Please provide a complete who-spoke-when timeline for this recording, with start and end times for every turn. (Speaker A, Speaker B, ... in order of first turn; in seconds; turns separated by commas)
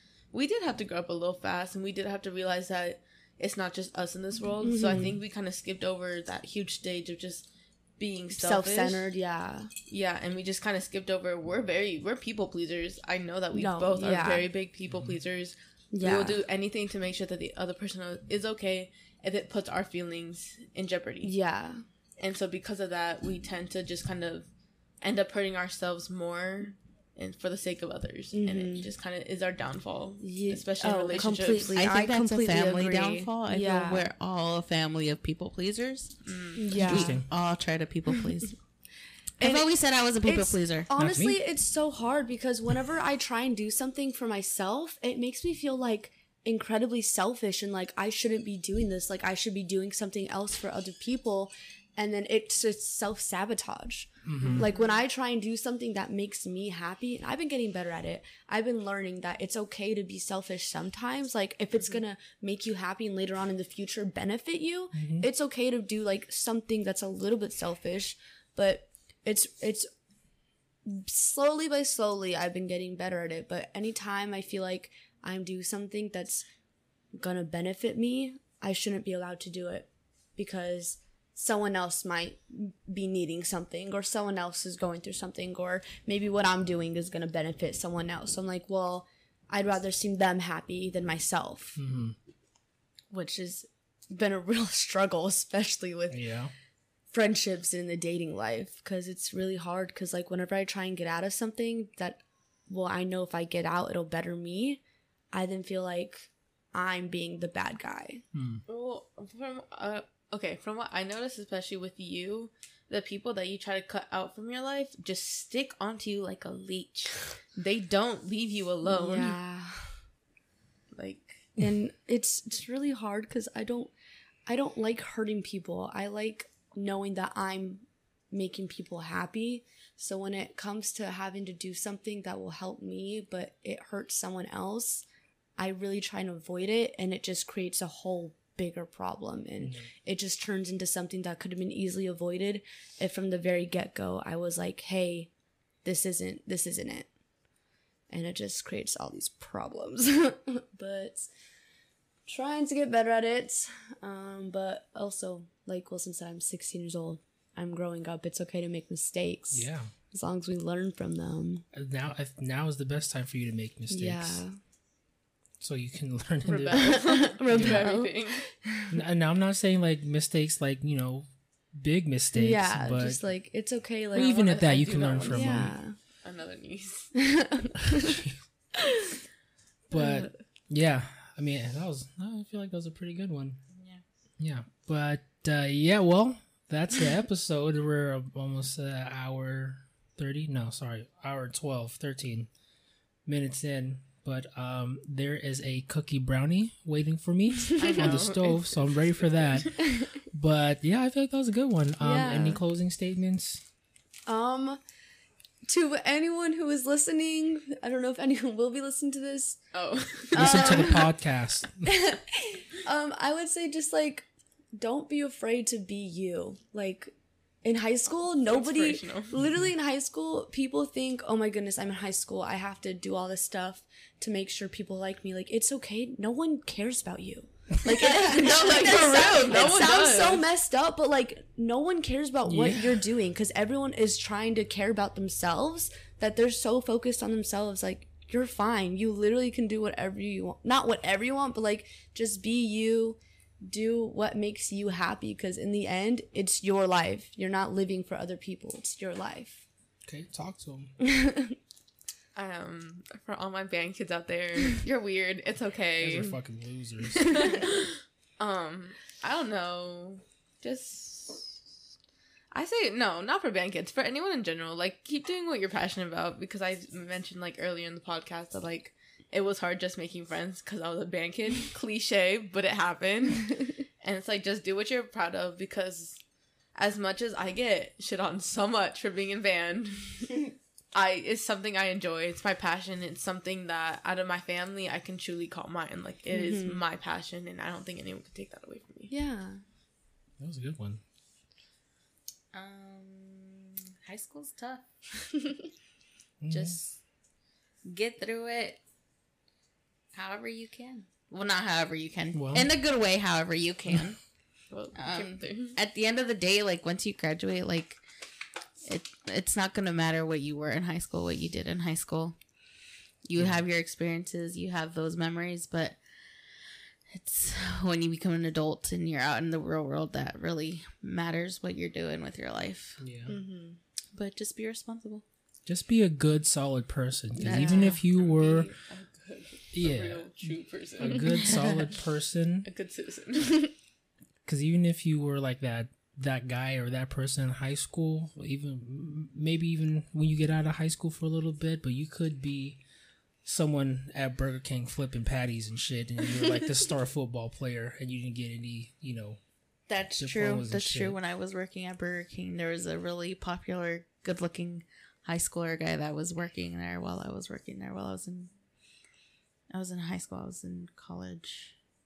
Speaker A: 0.3-7.5, Speaker B: 4.6-5.1, Speaker A: 8.0-9.1, Speaker B: 8.3-9.7, Speaker A: 9.9-21.3, Speaker B: 13.5-14.5, Speaker C: 14.9-15.2, Speaker B: 15.9-16.4, Speaker B: 21.2-21.8, Speaker A: 22.2-24.5, Speaker A: 25.0-31.8, Speaker B: 28.3-28.9, Speaker B: 30.2-34.1, Speaker D: 31.8-38.6, Speaker A: 36.2-37.0, Speaker B: 36.6-37.1, Speaker C: 36.9-37.3, Speaker B: 39.4-39.7, Speaker D: 39.4-40.9, Speaker B: 40.2-69.9, Speaker C: 41.0-41.4, Speaker C: 54.2-54.7, Speaker A: 54.4-55.0, Speaker C: 64.9-65.3, Speaker B: 70.9-76.5, Speaker B: 77.2-91.8, Speaker C: 91.8-92.2, Speaker B: 93.1-96.2, Speaker C: 96.1-96.5, Speaker B: 97.1-104.8, Speaker B: 105.3-108.2, Speaker C: 108.3-108.6, Speaker A: 108.7-119.4, Speaker B: 118.9-120.0, Speaker A: 120.9-121.5, Speaker B: 121.6-123.9, Speaker B: 124.5-135.1, Speaker B: 135.6-145.3, Speaker C: 139.6-139.9, Speaker B: 145.8-147.1, Speaker B: 148.1-151.3, Speaker B: 152.3-161.7, Speaker C: 159.5-159.9, Speaker C: 161.7-164.4, Speaker B: 163.9-164.6, Speaker C: 165.6-167.0, Speaker A: 166.4-168.4, Speaker B: 166.8-168.9, Speaker C: 167.5-167.8, Speaker C: 168.9-173.2, Speaker B: 172.3-174.4, Speaker C: 174.1-175.8, Speaker A: 174.1-177.1, Speaker B: 175.3-175.9, Speaker B: 177.2-178.2, Speaker C: 178.0-178.3, Speaker C: 179.9-183.6, Speaker A: 183.7-184.0, Speaker C: 184.4-192.5, Speaker C: 193.2-203.6, Speaker A: 197.8-199.0, Speaker B: 202.0-202.6, Speaker B: 204.3-204.8, Speaker B: 205.7-209.6, Speaker A: 209.7-211.0, Speaker B: 210.3-211.2, Speaker C: 210.3-211.9, Speaker B: 211.8-249.7, Speaker A: 218.5-219.3, Speaker C: 219.4-219.6, Speaker A: 227.9-230.5, Speaker D: 228.0-230.0, Speaker C: 232.5-233.0, Speaker C: 250.1-250.9, Speaker B: 251.0-251.6, Speaker A: 252.3-256.4, Speaker C: 256.0-257.5, Speaker A: 257.1-261.6, Speaker A: 262.5-276.2, Speaker A: 276.7-289.1, Speaker B: 286.3-286.8, Speaker B: 289.1-289.6, Speaker C: 290.4-291.0, Speaker D: 292.5-294.9, Speaker C: 296.4-296.8, Speaker D: 296.5-297.0, Speaker D: 297.8-298.8, Speaker D: 300.1-304.2, Speaker C: 302.3-302.7, Speaker A: 304.7-305.8, Speaker D: 304.9-308.0, Speaker D: 308.9-312.4, Speaker D: 313.2-323.0, Speaker C: 313.4-313.6, Speaker C: 323.0-323.3, Speaker B: 323.3-323.8, Speaker D: 324.1-325.2, Speaker C: 325.6-328.7, Speaker A: 327.4-331.7, Speaker B: 327.5-327.9, Speaker C: 329.7-332.7, Speaker D: 331.3-331.7, Speaker A: 332.6-333.7, Speaker C: 334.4-342.8, Speaker C: 343.4-349.4, Speaker D: 349.9-358.5, Speaker C: 350.2-351.2, Speaker D: 359.7-361.7